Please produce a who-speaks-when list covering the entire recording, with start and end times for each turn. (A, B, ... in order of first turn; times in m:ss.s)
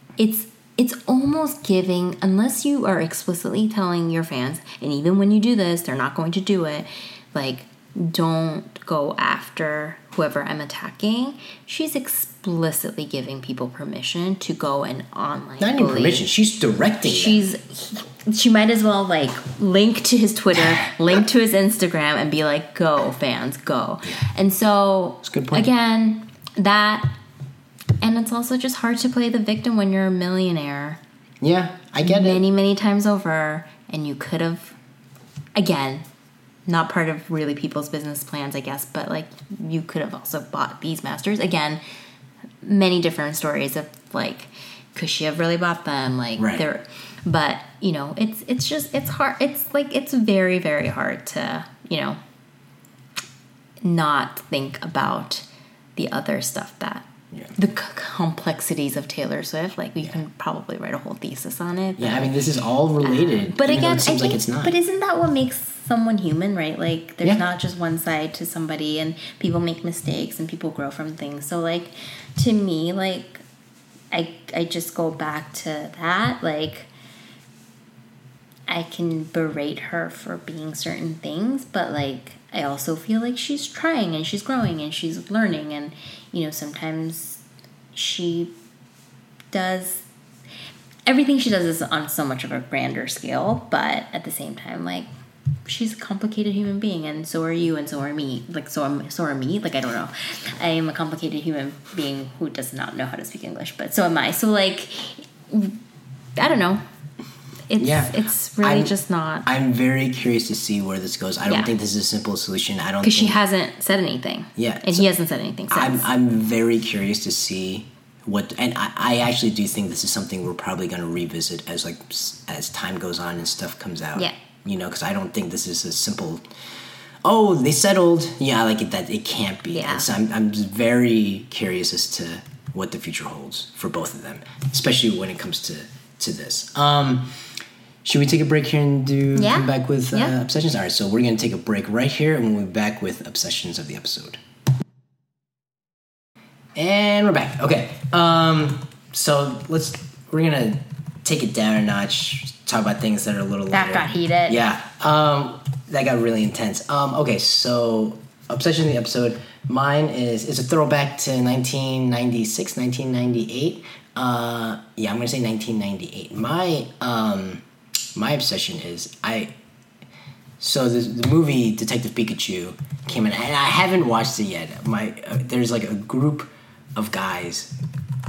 0:00.2-0:16.2 A
0:15.6-0:17.4 B
0:17.0-0:27.1 A
0:20.6-0:20.9 B
0:25.2-0:25.7 B
0:28.0-0:31.0 A
0:31.4-0:32.4 B
0:32.0-0:34.7 A
0:35.5-0:36.0 A
0:36.6-0:41.8 A
0:42.6-0:52.2 A
0:46.4-0:46.6 B
0:53.8-1:02.4 A
1:02.0-1:04.7 B
1:03.0-1:13.4 A
1:14.1-1:16.9 A
1:18.7-1:27.4 A
1:27.9-1:28.5 A
1:29.5-1:30.0 A
1:31.0-1:35.1 A
1:35.6-1:45.8 A
1:46.4-1:46.8 A
1:47.7-1:49.5 A
1:47.8-1:53.4 B
1:51.4-1:51.7 A
1:53.0-1:56.1 A
1:54.6-1:55.1 B
1:55.7-2:06.4 B
2:07.2-2:17.4 B
2:09.7-2:10.1 A
2:18.0-2:24.4 B
2:19.4-2:20.3 A
2:26.8-2:47.6 B
2:33.7-2:34.6 A
2:48.1-2:49.5 B
2:50.6-2:57.7 B